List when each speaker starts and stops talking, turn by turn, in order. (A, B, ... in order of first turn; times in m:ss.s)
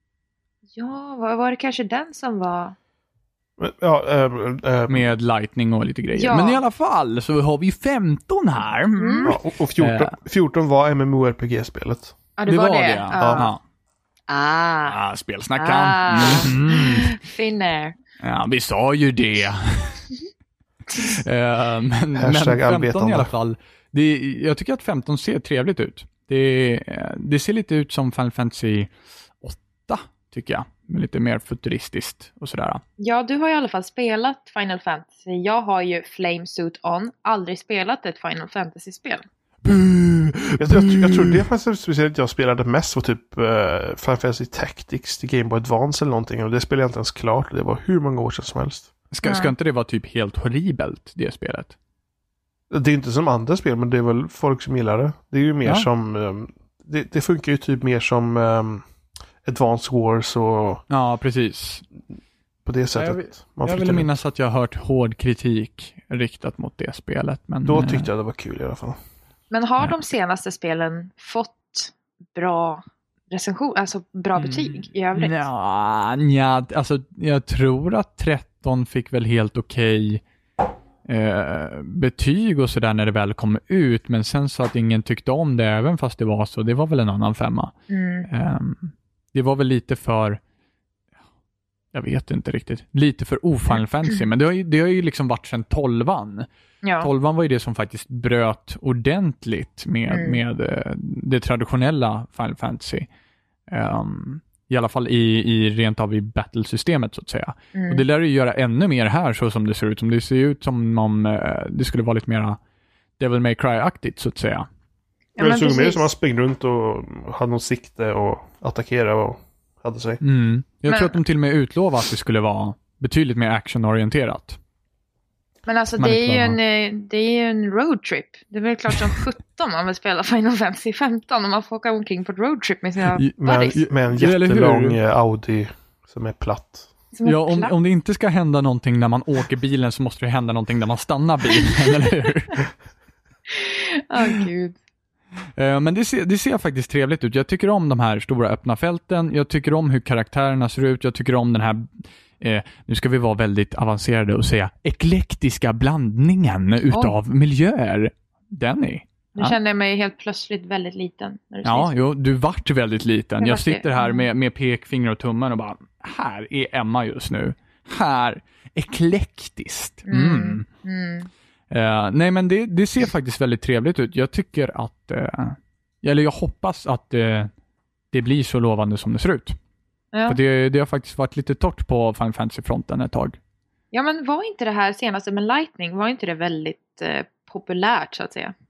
0:00.8-0:02.8 A
0:03.6-0:05.1 B
0:04.9-0:10.1 C
0:06.2-0:06.6 A
0:09.0-0:09.3 A
0:09.2-0:12.1 B
0:12.4-0:13.5 A
0:12.5-0:13.6 C
0:13.2-0:13.4 B
0:14.3-0:15.0 A
0:14.8-0:17.2 C
0:15.6-0:18.0 A
0:18.2-0:20.1 C
0:21.0-0:32.8 C
0:22.1-0:23.3 B
0:33.0-0:39.2 A
0:39.6-0:41.4 C
0:40.6-0:48.9 B
0:49.1-0:51.8 C
0:49.2-0:49.5 A
0:52.7-0:58.8 B
0:59.4-1:00.8 B
1:00.9-1:01.8 C
1:02.6-1:04.1 B
1:02.9-1:08.1 C
1:07.6-1:09.0 B
1:09.5-1:15.4 A
1:14.4-1:20.2 C
1:21.0-1:27.7 C
1:27.9-1:28.3 A
1:28.3-1:30.4 C
1:31.9-1:36.5 C
1:36.8-1:37.1 A
1:37.0-1:43.1 C
1:40.1-1:40.4 A
1:43.7-1:52.6 C
1:47.7-1:48.0 A
1:53.2-1:54.6 C
1:55.4-1:56.1 A
1:55.4-2:00.2 B
2:00.2-2:04.6 C
2:00.8-2:01.2 A
2:05.7-2:13.8 A
2:06.0-2:06.6 C
2:13.2-2:15.0 C
2:13.4-2:16.9 B
2:17.1-2:17.7 A
2:17.2-2:22.6 C
2:23.5-2:24.8 A
2:25.6-2:39.6 C
2:39.4-2:41.9 A
2:41.6-2:50.6 C
2:43.4-2:44.3 A
2:50.1-2:51.3 A
2:51.7-2:57.5 C
2:58.1-2:59.6 C
3:00.1-3:00.4 A
3:00.3-3:03.4 C
3:03.9-3:08.5 A